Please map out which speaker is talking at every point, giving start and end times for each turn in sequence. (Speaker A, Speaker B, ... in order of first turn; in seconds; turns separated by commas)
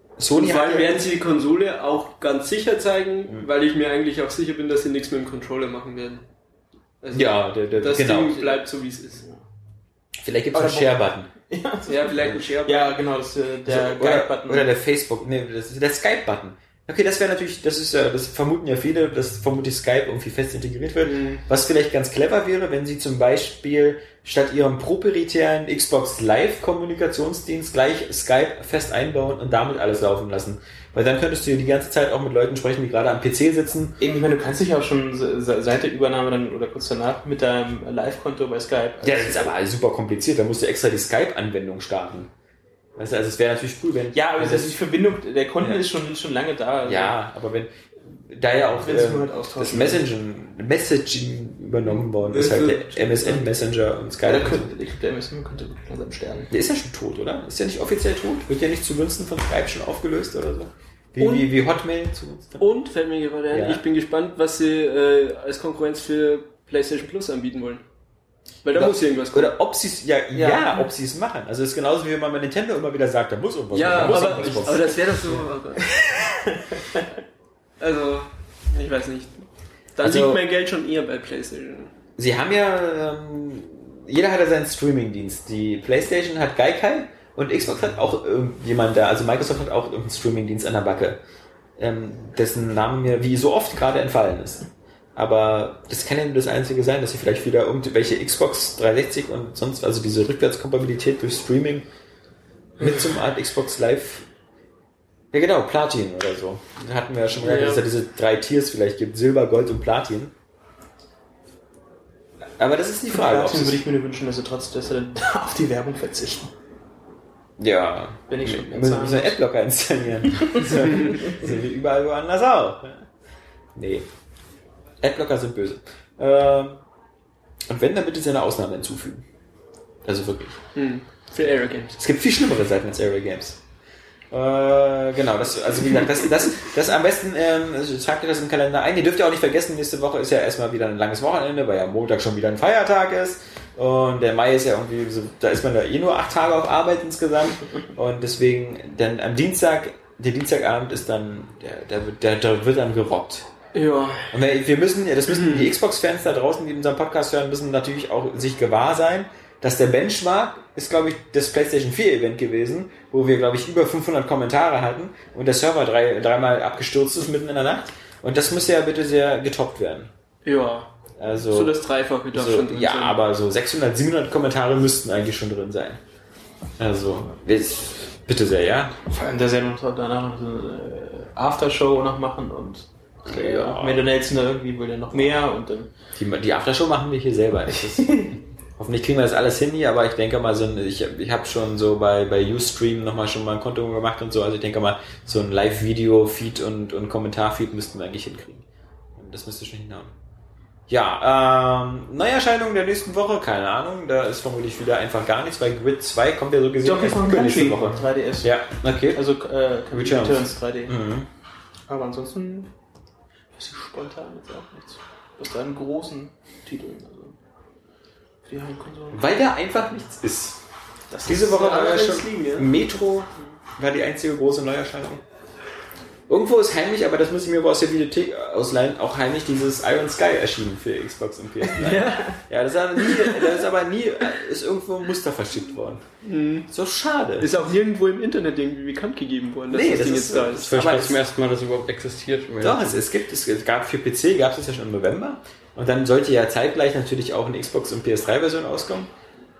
Speaker A: 0.2-0.9, Speaker B: 0.3-6.2, Speaker B: 7.0-9.2, Speaker A: 7.1-8.6, Speaker A: 10.2-11.3, Speaker C: 10.5-14.7, Speaker B: 11.9-13.0, Speaker A: 13.7-34.0, Speaker B: 21.0-21.4, Speaker C: 34.0-39.5, Speaker A: 39.0-42.3, Speaker A: 43.0-44.8, Speaker C: 44.1-47.1, Speaker A: 46.8-54.7, Speaker C: 48.8-50.0, Speaker B: 52.2-53.4, Speaker C: 54.2-56.5, Speaker A: 56.5-62.7, Speaker B: 61.2-61.5, Speaker B: 62.6-67.8, Speaker A: 63.5-63.8, Speaker B: 68.6-69.5, Speaker A: 68.7-75.0, Speaker C: 70.3-70.9, Speaker B: 73.7-75.9, Speaker C: 73.9-74.7, Speaker C: 75.8-77.1, Speaker B: 77.8-79.4, Speaker B: 80.0-81.9, Speaker A: 80.0-80.4, Speaker A: 82.2-91.2, Speaker A: 91.8-101.9, Speaker A: 102.8-104.2, Speaker A: 105.3-110.3, Speaker B: 107.4-107.8, Speaker A: 112.6-113.8, Speaker C: 113.1-116.5, Speaker A: 117.6-123.1, Speaker C: 118.3-119.4, Speaker A: 123.7-124.1, Speaker A: 125.0-126.8, Speaker A: 127.7-129.2, Speaker A: 130.0-130.6, Speaker B: 130.7-131.9, Speaker A: 131.9-133.6, Speaker A: 134.3-153.5, Speaker B: 153.7-154.3, Speaker A: 154.3-170.1, Speaker B: 155.3-155.7, Speaker B: 170.4-170.9, Speaker A: 171.2-171.8, Speaker B: 171.5-173.2, Speaker A: 172.3-176.0, Speaker A: 176.8-178.9, Speaker C: 179.1-185.9, Speaker A: 183.2-184.1, Speaker A: 186.2-198.6, Speaker C: 187.7-188.4, Speaker A: 199.2-200.1, Speaker A: 200.9-209.2, Speaker C: 206.8-208.5, Speaker C: 209.1-211.0, Speaker A: 209.9-211.2, Speaker C: 211.9-212.7, Speaker C: 213.5-217.4, Speaker C: 218.4-219.2, Speaker A: 219.1-220.6, Speaker C: 221.1-221.9, Speaker A: 221.2-225.2, Speaker B: 221.4-222.7, Speaker A: 226.3-236.0, Speaker B: 231.7-232.3, Speaker B: 233.1-233.6, Speaker B: 236.2-236.7, Speaker A: 236.7-237.5, Speaker B: 237.4-241.0, Speaker A: 239.7-241.2, Speaker D: 240.6-243.0, Speaker A: 242.6-249.1